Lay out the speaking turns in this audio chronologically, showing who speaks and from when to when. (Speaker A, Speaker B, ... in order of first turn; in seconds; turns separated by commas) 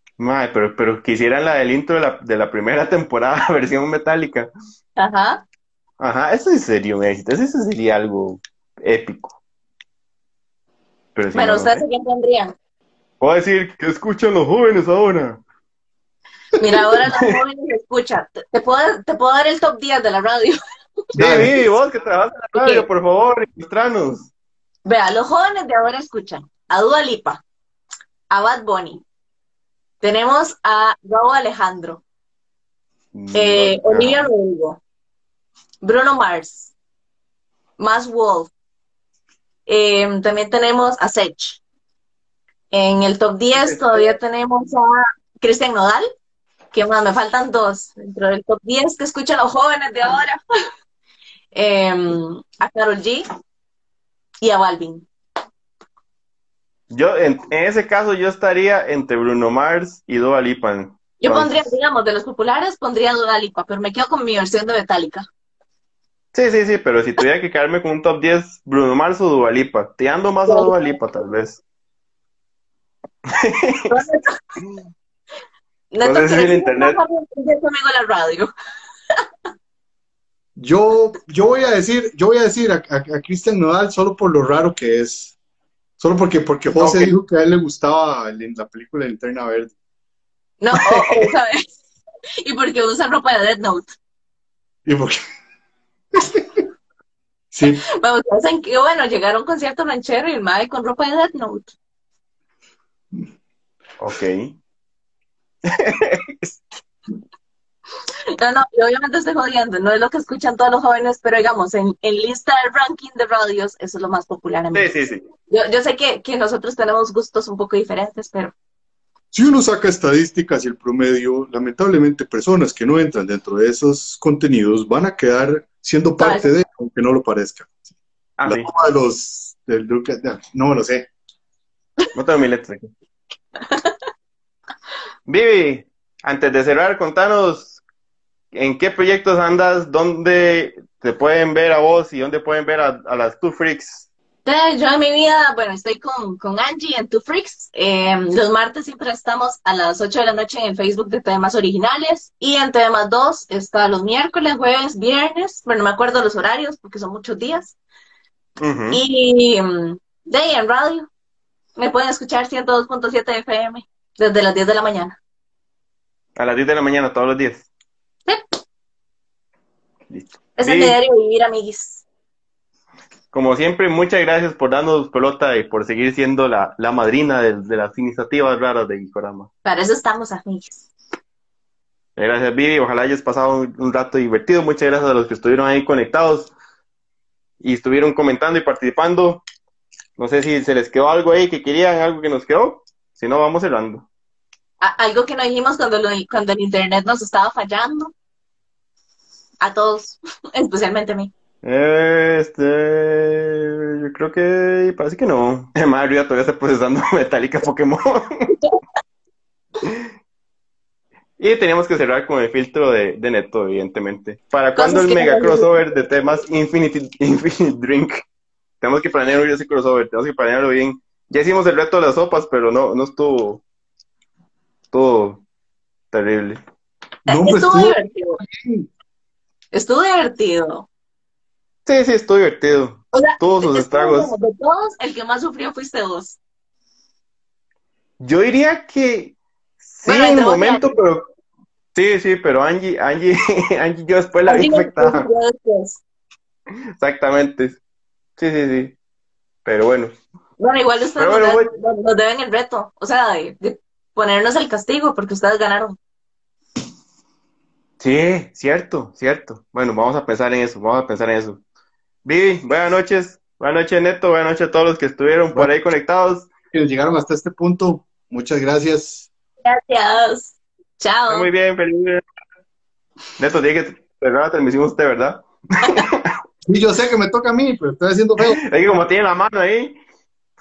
Speaker A: 0.2-4.5, Speaker B: 5.0-5.4, Speaker A: 6.0-9.4, Speaker A: 11.2-11.8, Speaker B: 11.3-12.5, Speaker A: 13.2-15.4, Speaker B: 16.6-20.6, Speaker C: 21.1-21.5, Speaker A: 21.2-24.3, Speaker B: 22.6-22.9, Speaker B: 24.9-27.4, Speaker B: 28.3-29.0, Speaker B: 30.0-32.0, Speaker A: 33.1-34.3, Speaker B: 33.3-34.8, Speaker B: 35.8-36.7, Speaker B: 37.8-38.5, Speaker B: 39.7-41.6, Speaker B: 42.7-46.1, Speaker A: 43.5-44.0, Speaker B: 46.7-50.4, Speaker B: 51.5-53.3, Speaker B: 54.4-55.1, Speaker A: 56.9-61.7, Speaker B: 61.2-65.3, Speaker A: 66.3-71.6, Speaker B: 70.5-70.7, Speaker A: 73.3-74.0, Speaker B: 73.9-74.4, Speaker B: 75.9-78.5, Speaker A: 76.0-77.0, Speaker C: 80.6-85.3, Speaker C: 86.0-89.7, Speaker A: 86.8-87.1, Speaker B: 90.6-91.7, Speaker B: 92.4-93.9, Speaker C: 94.9-95.2, Speaker C: 96.2-96.6, Speaker C: 97.5-97.8, Speaker B: 97.7-101.7, Speaker A: 104.0-104.5, Speaker A: 105.7-106.6, Speaker B: 108.4-114.9, Speaker A: 114.7-115.2, Speaker B: 115.5-118.5, Speaker C: 119.3-127.8, Speaker B: 126.2-126.5, Speaker A: 128.4-128.7, Speaker C: 128.5-131.1, Speaker A: 132.1-132.9, Speaker B: 133.7-133.9, Speaker A: 135.3-137.8, Speaker A: 138.5-144.1, Speaker B: 144.5-157.8, Speaker A: 158.6-159.0, Speaker B: 158.9-161.1, Speaker B: 161.8-165.2, Speaker A: 166.4-167.7, Speaker A: 170.1-171.0, Speaker B: 170.6-172.0, Speaker A: 173.3-179.5, Speaker B: 179.7-180.9, Speaker A: 182.2-186.5, Speaker A: 187.6-189.4, Speaker A: 190.2-194.1, Speaker B: 194.8-198.1, Speaker B: 199.6-201.3, Speaker A: 201.6-208.5, Speaker A: 209.8-210.1, Speaker A: 211.4-218.2, Speaker B: 214.8-215.7, Speaker A: 218.8-223.6, Speaker A: 224.9-225.4, Speaker A: 226.1-226.6, Speaker B: 227.3-228.4, Speaker C: 227.3-228.9, Speaker B: 229.7-230.9, Speaker A: 231.9-234.3, Speaker B: 233.1-236.4, Speaker A: 238.2-241.2, Speaker B: 240.1-240.9, Speaker A: 241.9-245.3, Speaker B: 244.5-246.0, Speaker A: 247.0-247.8, Speaker A: 248.4-248.9, Speaker A: 249.7-250.1, Speaker B: 250.6-256.0, Speaker A: 251.2-251.7, Speaker A: 258.0-261.6, Speaker A: 262.2-266.5, Speaker C: 266.7-269.3, Speaker B: 269.6-271.5, Speaker A: 271.3-272.2, Speaker A: 273.4-276.3, Speaker C: 276.6-278.6, Speaker A: 278.6-280.0